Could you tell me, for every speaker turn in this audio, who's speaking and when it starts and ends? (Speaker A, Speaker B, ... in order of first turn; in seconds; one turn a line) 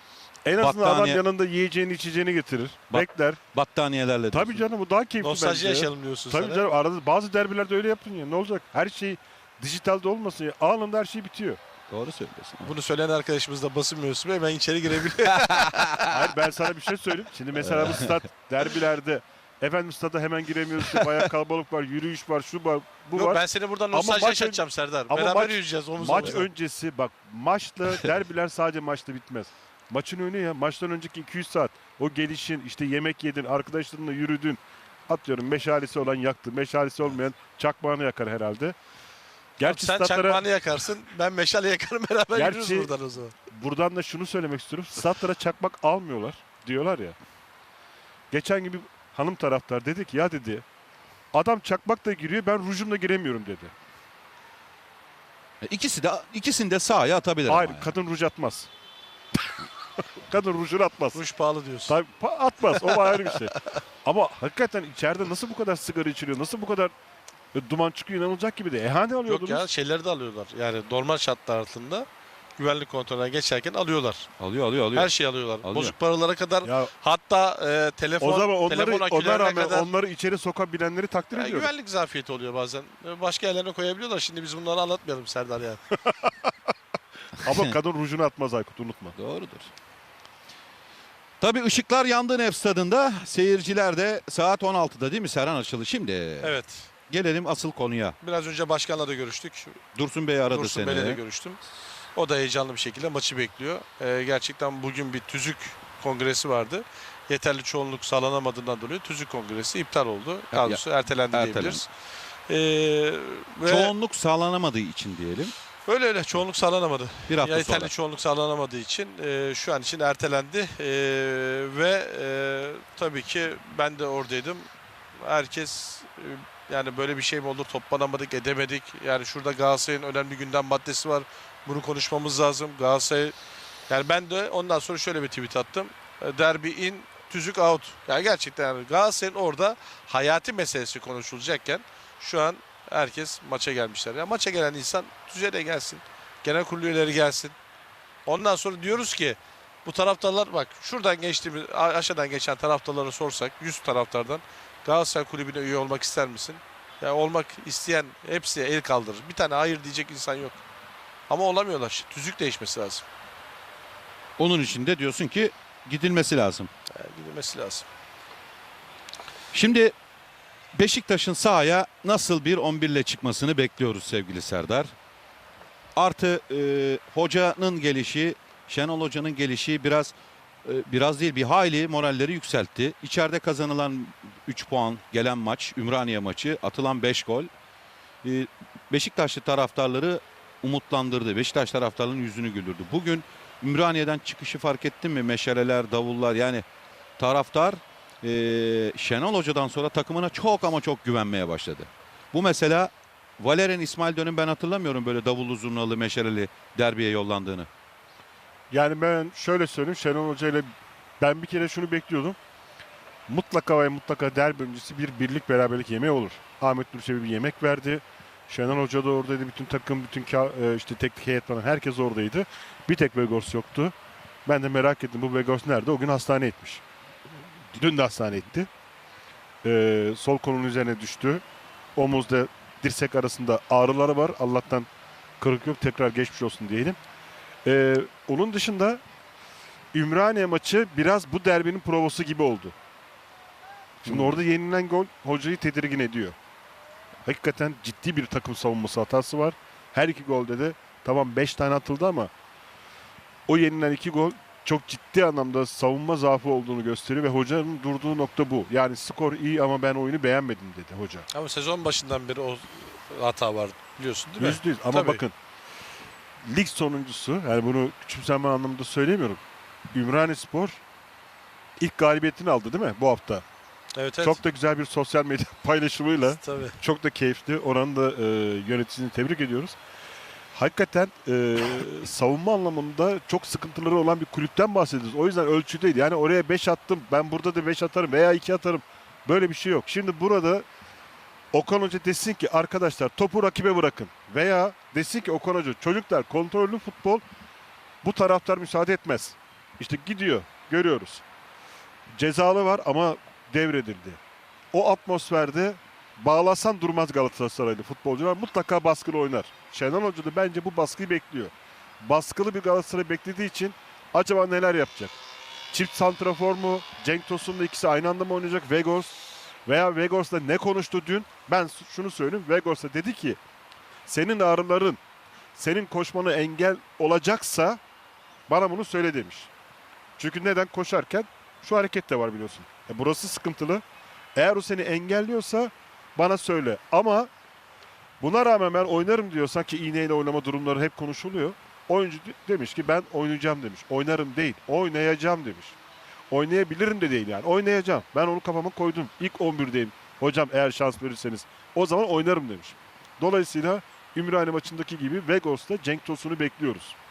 Speaker A: 0.4-3.4
Speaker B: 0.6-1.2
Speaker B: 2.9-4.6
Speaker A: 4.3-11.6
Speaker C: 5.2-6.6
Speaker B: 11.9-12.7
Speaker C: 12.6-16.2
Speaker A: 16.1-38.8
Speaker B: 17.6-18.2
Speaker C: 23.1-26.5
Speaker A: 39.6-40.4
Speaker C: 39.6-43.3
Speaker A: 42.3-42.9
Speaker A: 43.5-47.1
Speaker A: 48.3-50.6
Speaker A: 51.3-53.7
Speaker B: 55.6-57.9
Speaker A: 57.5-58.7
Speaker A: 60.2-61.2
Speaker C: 61.1-62.0
Speaker A: 61.9-66.9
Speaker C: 62.7-63.5
Speaker A: 67.5-69.7
Speaker C: 69.2-72.0
Speaker C: 72.6-74.3
Speaker B: 74.4-75.9
Speaker C: 74.9-79.9
Speaker A: 76.6-76.9
Speaker A: 78.2-81.7
Speaker C: 81.3-85.8
Speaker A: 87.4-89.2
Speaker B: 89.1-89.7
Speaker B: 91.4-98.2
Speaker C: 96.4-96.9
Speaker C: 98.2-99.8
Speaker B: 99.9-101.2
Speaker C: 100.5-101.6
Speaker C: 102.1-111.9
Speaker B: 110.5-111.8
Speaker C: 112.5-113.9
Speaker B: 113.7-115.5
Speaker C: 115.8-124.7
Speaker B: 117.3-117.9
Speaker C: 125.2-133.3
Speaker C: 133.9-147.5
Speaker C: 148.2-160.6
Speaker C: 161.3-163.0
Speaker B: 164.4-166.7
Speaker C: 166.9-167.8
Speaker B: 169.5-169.9
Speaker B: 170.7-174.9
Speaker B: 175.9-187.5
Speaker B: 188.2-196.6
Speaker B: 197.2-207.7
Speaker A: 208.7-210.7
Speaker A: 211.2-212.4
Speaker A: 213.3-223.9
Speaker A: 224.4-226.8
Speaker A: 227.7-228.7
Speaker A: 229.6-231.4
Speaker A: 231.9-234.9
Speaker A: 235.4-237.0
Speaker A: 237.6-239.0
Speaker A: 239.9-242.7
Speaker A: 244.0-246.3
Speaker A: 247.2-252.3
Speaker A: 253.5-261.3
Speaker C: 261.3-265.2
Speaker A: 264.4-265.4
Speaker A: 266.4-269.4
Speaker A: 269.9-270.8
Speaker A: 271.8-273.4
Speaker C: 273.9-274.4
Speaker A: 274.2-279.8
Speaker C: 276.2-276.8
Speaker A: 280.5-290.6
Speaker A: 291.5-297.2
Speaker A: 298.0-301.2
Speaker A: 302.1-304.2
Speaker A: 304.7-315.2
Speaker A: 315.7-323.4
Speaker A: 324.1-325.0
Speaker A: 325.6-327.8
Speaker A: 328.5-329.5
Speaker A: 330.2-333.8
Speaker A: 334.3-337.3
Speaker A: 338.2-345.8
Speaker A: 346.3-356.9